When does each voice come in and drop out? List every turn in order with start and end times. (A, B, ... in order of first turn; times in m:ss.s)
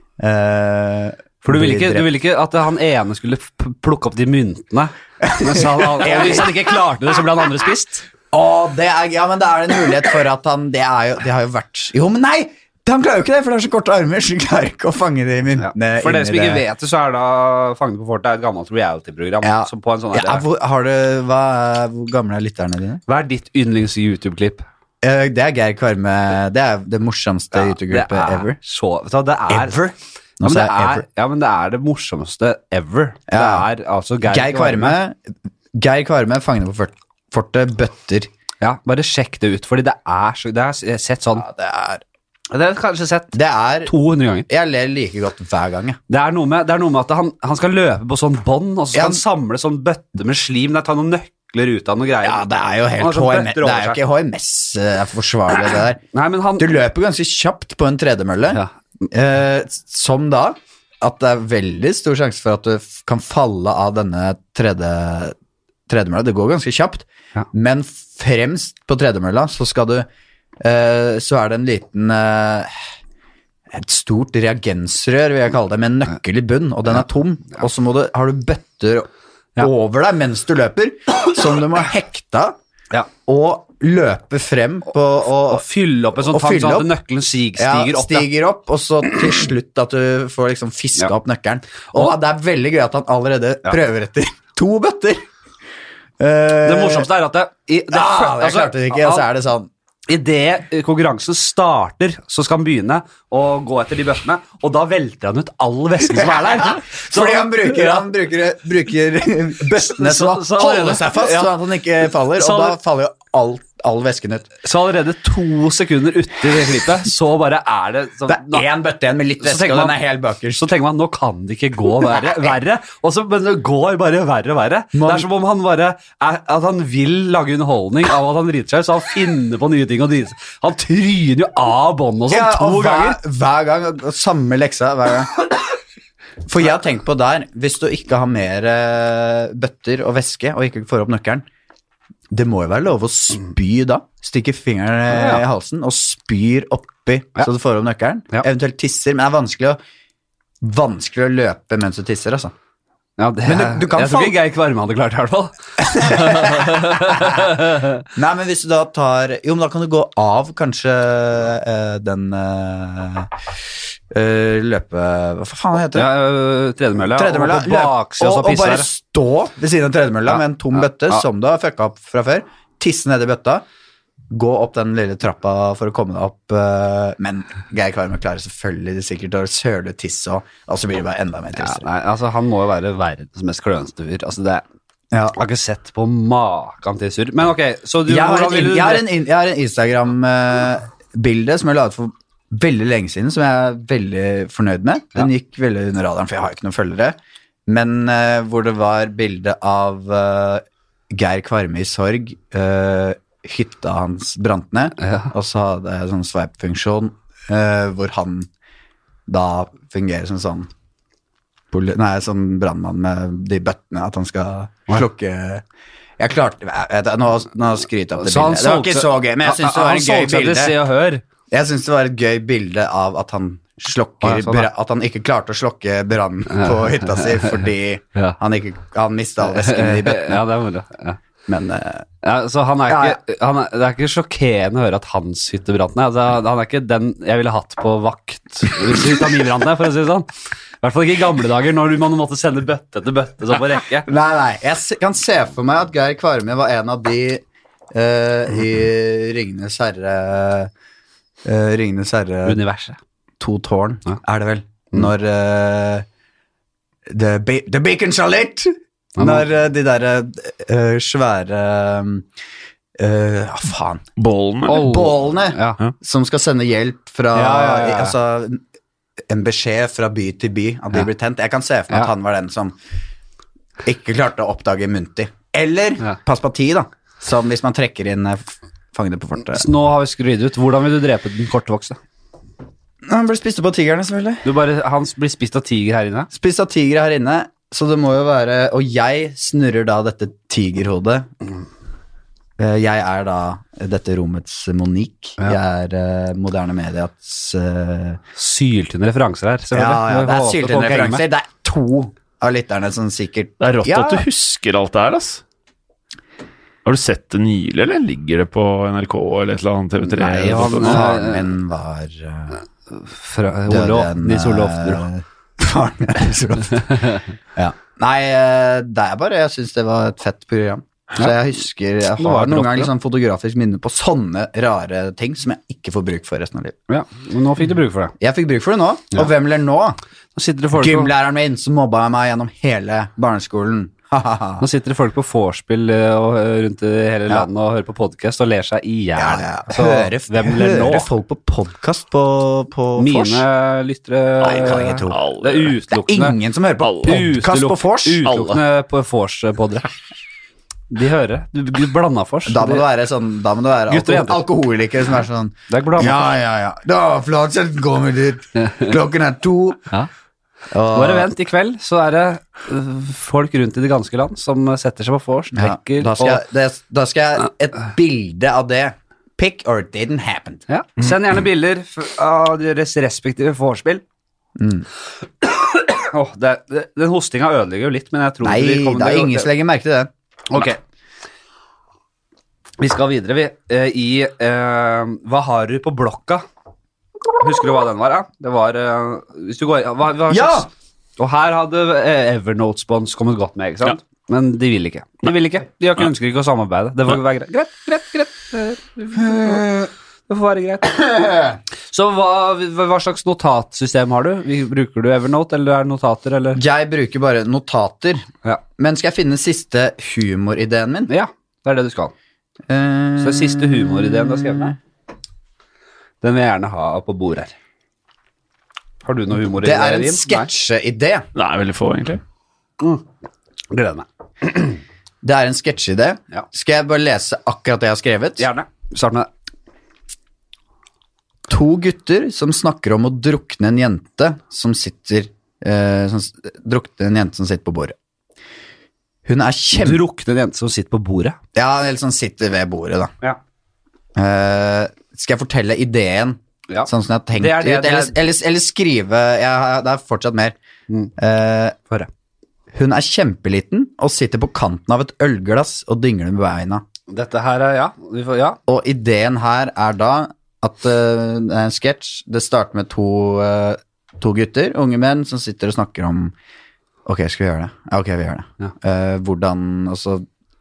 0:00.2-0:02.1 A
0:01.4-0:08.0 B
0:05.2-0:06.6 A
0:08.3-0:16.6 A
0:15.6-0:20.4 B
0:19.4-0:23.0 A
0:23.1-0:24.6 B
0:25.0-0:28.6 A
0:27.5-0:29.8 B
0:29.5-0:31.0 A
0:30.4-0:35.0 B
0:33.3-0:33.7 A
0:34.2-0:35.2 A
0:35.7-0:38.3 A
0:38.6-0:41.4 B
0:41.3-0:42.0 A
0:42.5-0:44.5 B
0:43.3-0:43.9 A
0:44.5-0:46.0 A
0:46.1-0:52.4 B
0:48.9-0:49.2 A
0:52.2-0:56.0 A
0:53.0-0:54.0 B
0:56.1-0:56.8 B
0:56.6-1:05.3 A
1:05.9-1:10.1 A
1:10.6-1:12.7 A
1:13.7-1:22.6 A
1:23.2-1:25.6 A
1:25.5-1:28.2 B
1:26.2-1:26.9 A
1:27.6-1:35.2 A
1:36.2-1:37.1 A
1:36.6-1:39.3 B
1:37.9-1:39.7 A
1:40.1-1:48.0 B
1:46.1-1:54.5 A
1:49.8-1:51.5 B
1:52.3-1:52.8 B
1:54.6-1:58.6 B
1:58.3-2:00.6 A
1:59.4-2:00.0 B
2:00.5-2:13.2 B
2:04.9-2:05.3 A
2:12.3-2:15.4 A
2:16.4-2:21.4 A
2:22.3-2:29.8 A
2:25.1-2:25.4 B
2:30.6-2:32.5 A
2:33.2-2:38.0 B
2:33.4-2:34.4 A
2:35.8-2:37.5 A
2:38.1-2:43.3 A
2:44.1-2:46.1 A
2:45.9-2:48.9 B
2:47.1-2:53.6 A
2:54.3-3:01.8 A
3:01.6-3:04.6 B
3:05.1-3:05.4 A
3:05.3-3:09.1 B
3:08.1-3:28.5 A
3:25.0-3:25.3 B
3:29.3-3:30.7 A
3:31.7-3:35.6 A
3:36.2-3:40.8 A
3:38.2-3:41.2 B
3:41.5-3:50.4 A
3:44.2-3:44.7 B
3:46.5-3:47.4 B
3:49.4-3:51.2 B
3:51.5-3:52.1 A
3:52.2-4:00.3 B
3:52.8-3:53.2 A
4:00.8-4:04.1 B
4:04.1-4:10.7 A
4:11.4-4:12.6 A
4:12.4-4:13.0 B
4:13.4-4:16.0 A
4:17.1-4:22.3 A
4:19.2-4:19.4 B
4:23.0-4:24.0 A
4:24.2-4:24.9 C
4:24.7-4:25.8 B
4:24.7-4:28.6 A
4:27.3-4:28.1 B
4:29.3-4:32.7 A
4:33.8-4:39.7 A
4:39.5-4:42.0 B
4:43.0-4:44.4 A
4:44.4-4:46.3 B
4:46.3-4:51.3 A
4:52.6-4:58.2 A
4:58.3-5:01.2 B
4:59.7-5:04.2 A
5:03.6-5:05.4 C
5:06.8-5:11.1 C
5:10.1-5:11.5 B
5:10.5-5:12.6 A
5:12.9-5:15.0 B
5:13.7-5:26.8 A
5:22.2-5:22.9 B
5:26.9-5:28.1 B
5:28.2-5:30.0 A
5:30.3-5:31.1 B
5:30.7-5:34.6 A
5:34.6-5:41.1 B
5:39.2-5:43.4 A
5:43.0-5:46.4 B
5:44.4-5:45.2 A
5:45.0-5:45.7 C
5:45.9-5:48.3 A
5:46.8-5:47.2 C
5:47.0-5:49.9 B
5:48.2-5:48.6 C
5:50.9-5:52.9 B
5:52.4-5:59.9 A
5:53.9-5:54.4 B
5:55.7-5:56.3 B
5:58.6-5:58.9 B
6:00.7-6:01.3 A
6:00.9-6:06.4 B
6:05.5-6:10.6 A
6:10.7-6:14.0 B
6:14.6-6:14.9 A
6:15.4-6:19.5 B
6:18.4-6:20.1 A
6:20.5-6:20.8 B
6:22.8-6:26.4 B
6:27.4-6:41.0 B
6:30.3-6:30.7 A
6:39.2-6:39.9 A
6:40.9-6:41.6 A
6:41.9-6:46.6 B
6:46.5-6:51.1 A
6:51.1-6:52.1 B
6:52.7-6:54.7 A
6:53.2-6:54.8 B
6:56.2-6:57.5 B
6:59.0-7:00.5 B
6:59.4-7:01.2 A
7:01.3-7:02.2 C
7:02.8-7:03.0 B
7:03.7-7:04.8 B
7:05.2-7:08.5 A
7:08.4-7:09.3 B
7:11.5-7:17.9 A
7:19.2-7:20.0 A
7:19.7-7:21.4 B
7:21.5-7:23.1 A
7:24.2-7:30.5 A
7:26.7-7:28.1 B
7:31.2-7:31.8 A
7:32.7-7:36.8 A
7:37.1-7:38.6 B
7:38.7-7:46.3 A
7:47.0-7:50.2 A